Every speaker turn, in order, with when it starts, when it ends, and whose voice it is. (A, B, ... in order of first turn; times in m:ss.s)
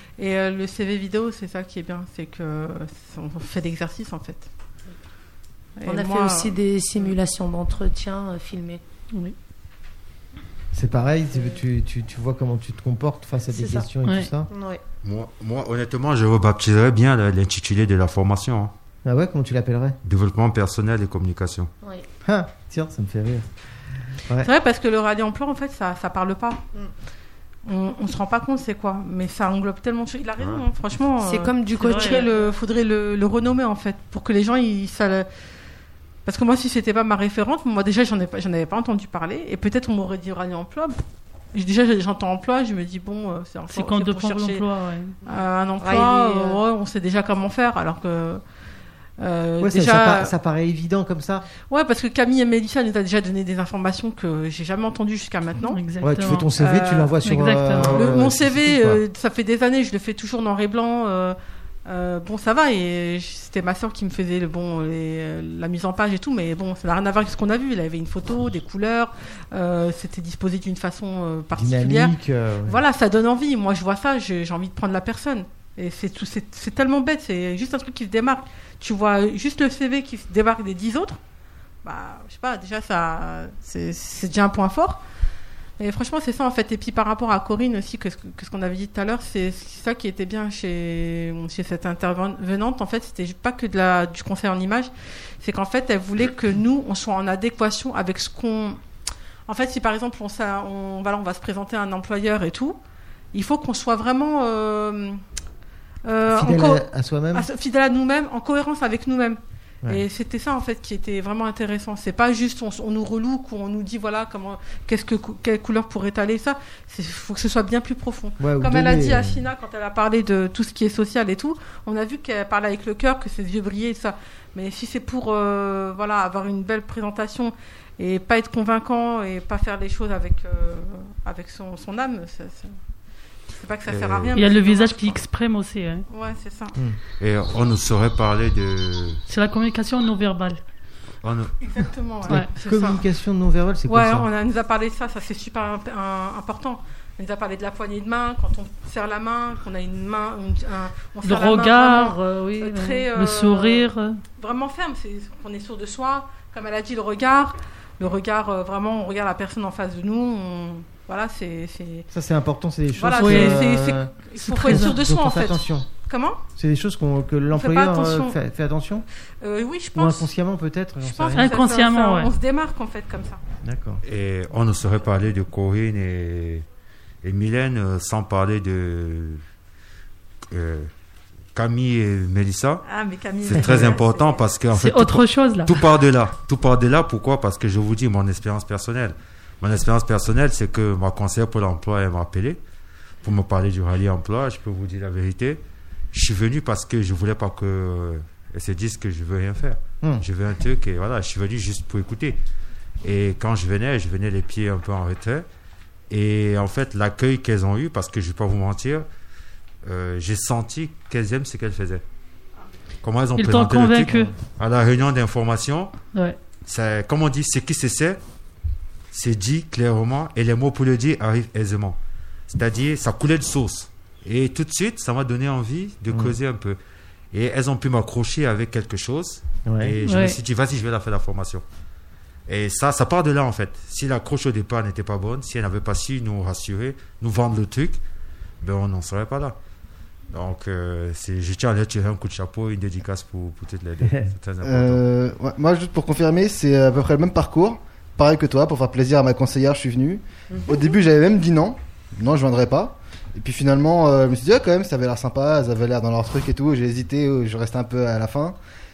0:00.2-0:04.5 A
0:05.8-0:06.6 A
0:05.8-0:08.8 B
0:10.7-0:14.5 C
0:13.5-0:13.9 B
0:14.5-0:14.8 B
0:15.0-0:18.7 D
0:19.0-0:20.0 C
0:20.0-0:21.7 D
0:22.2-0:23.5 C
0:24.4-0:26.6 A
0:27.6-0:35.3 A
0:31.2-0:32.5 B
0:31.9-0:32.2 E
0:36.2-0:41.0 A
0:41.5-0:44.7 A
0:43.7-0:45.2 E
0:45.2-0:48.4 A
0:45.8-0:46.6 B
0:49.2-0:50.3 A
0:49.6-0:51.5 C
0:51.7-0:55.8 A
0:55.7-0:56.5 E
0:56.0-0:59.0 C
0:56.6-0:57.1 A
0:57.2-0:58.1 E
0:57.8-1:12.1 A
1:11.5-1:12.8 C
1:12.6-1:21.2 A
1:21.8-1:25.0 A
1:25.8-1:38.8 A
1:39.5-1:42.8 A
1:43.3-1:45.2 A
1:46.0-2:12.8 A
1:46.3-1:47.5 C
1:58.4-1:59.5 C
2:13.5-2:15.2 A
2:13.9-2:14.4 D
2:14.3-2:16.0 E
2:16.1-2:16.8 A
2:17.2-2:19.2 D
2:19.3-2:20.6 E
2:21.2-2:21.5 D
2:21.6-2:23.0 A
2:22.3-2:24.3 C
2:23.9-2:42.1 A
2:31.2-2:34.2 E
2:42.1-2:45.9 C
2:42.9-2:46.4 A
2:43.2-2:43.7 E
2:44.4-2:45.0 E
2:46.5-2:49.0 C
2:47.5-2:48.4 A
2:49.4-2:50.3 A
2:49.9-2:51.5 C
2:51.0-2:53.4 A
2:51.3-2:52.3 E
2:53.6-2:54.0 C
2:54.0-2:56.6 D
2:57.2-2:59.4 D
3:00.5-3:00.9 D
3:01.5-3:02.8 D
3:02.8-3:04.4 A
3:03.4-3:12.6 D
3:03.6-3:03.8 C
3:04.7-3:05.8 E
3:13.2-3:15.6 D
3:16.1-3:22.4 D
3:23.0-3:25.4 D
3:26.1-3:29.0 D
3:29.8-3:32.0 D
3:33.0-3:36.0 D
3:33.4-3:34.3 E
3:34.1-3:34.3 C
3:36.1-3:36.4 E
3:36.6-3:38.2 D
3:39.1-3:42.0 D
3:42.5-3:46.8 D
3:46.1-3:46.4 C
3:47.3-3:51.6 D
3:49.6-3:50.0 C
3:50.0-3:50.4 E
3:52.5-3:58.0 D
3:58.6-3:59.6 D
4:00.3-4:05.0 D
4:04.6-4:18.6 F